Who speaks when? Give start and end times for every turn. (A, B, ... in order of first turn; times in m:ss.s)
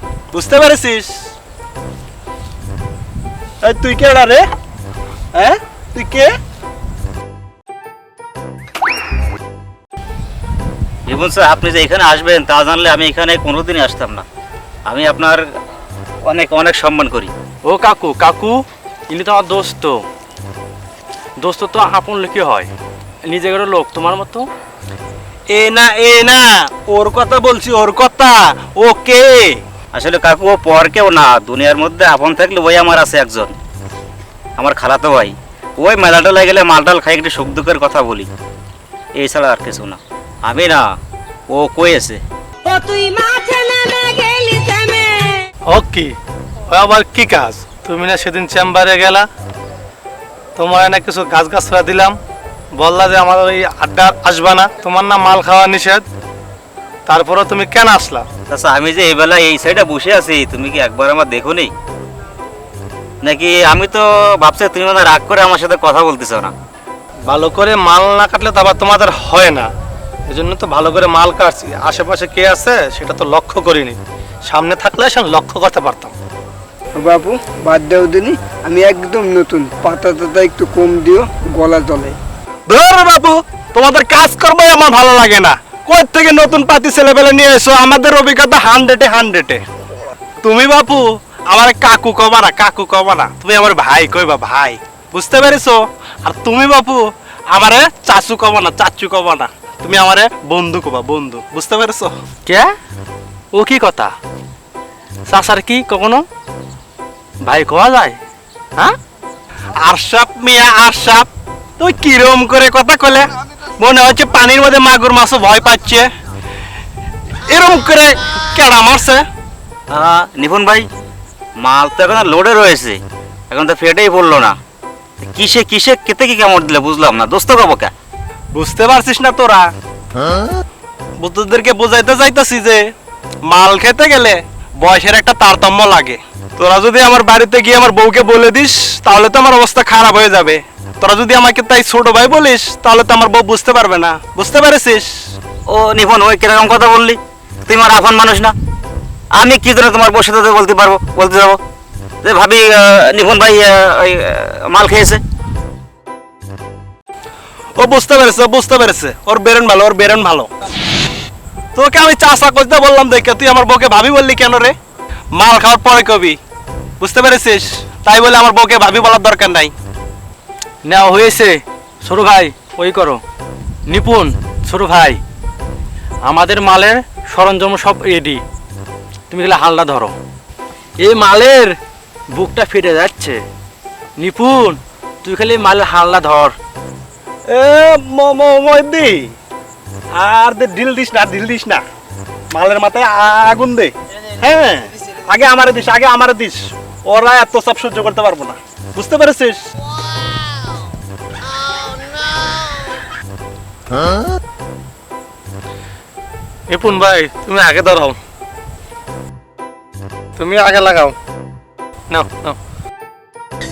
0:00.3-0:01.3 A
0:03.6-0:04.4 A
0:05.3-0:06.4 A
0:11.1-0:14.2 B
0:14.9-0:15.5 B
0:16.2-0:17.3 B
0:17.6-0:20.0 C
0:21.4-0:22.7 C
0:23.3-0:24.5 C
0:25.5-0:29.6 A
0:29.9-0:33.5 B
0:34.6-0:38.3 B
0:39.2-0:40.8 B
0:41.5-0:42.2 B
0:42.6-0:45.4 D
0:45.7-0:46.1 E
0:46.7-0:49.3 E
0:50.6-0:52.2 E
0:52.8-0:56.0 E
0:57.1-0:58.3 E
0:58.5-1:01.7 B
1:03.2-1:06.5 B
1:07.3-1:09.7 E
1:10.3-1:16.1 E
1:17.0-1:22.2 F
1:22.7-1:29.6 A
1:30.4-1:42.1 A
1:42.5-1:42.7 C
1:43.5-1:44.1 C
1:45.3-1:46.2 C
1:47.4-1:48.2 C
1:49.9-1:51.3 A
1:51.8-1:56.1 A
1:57.5-1:59.2 A
1:59.9-2:00.9 B
2:01.6-2:04.6 B
2:05.2-2:07.9 B
2:08.5-2:09.7 A
2:11.2-2:12.9 A
2:13.5-2:25.3 A
2:25.7-2:28.5 B
2:29.3-2:31.6 B
2:32.2-2:35.2 B
2:37.8-2:40.5 A
2:41.8-2:44.8 A
2:45.4-2:46.4 A
2:47.0-2:49.7 A
2:50.8-2:53.2 C
2:53.9-2:55.2 C
2:56.2-2:58.4 C
2:59.3-3:00.2 C
3:01.0-3:01.8 C
3:02.3-3:03.4 C
3:04.2-3:06.6 C
3:07.5-3:09.3 A
3:10.2-3:11.8 A
3:12.5-3:19.6 A
3:26.7-3:28.2 E
3:30.4-3:31.2 E
3:32.1-3:32.6 E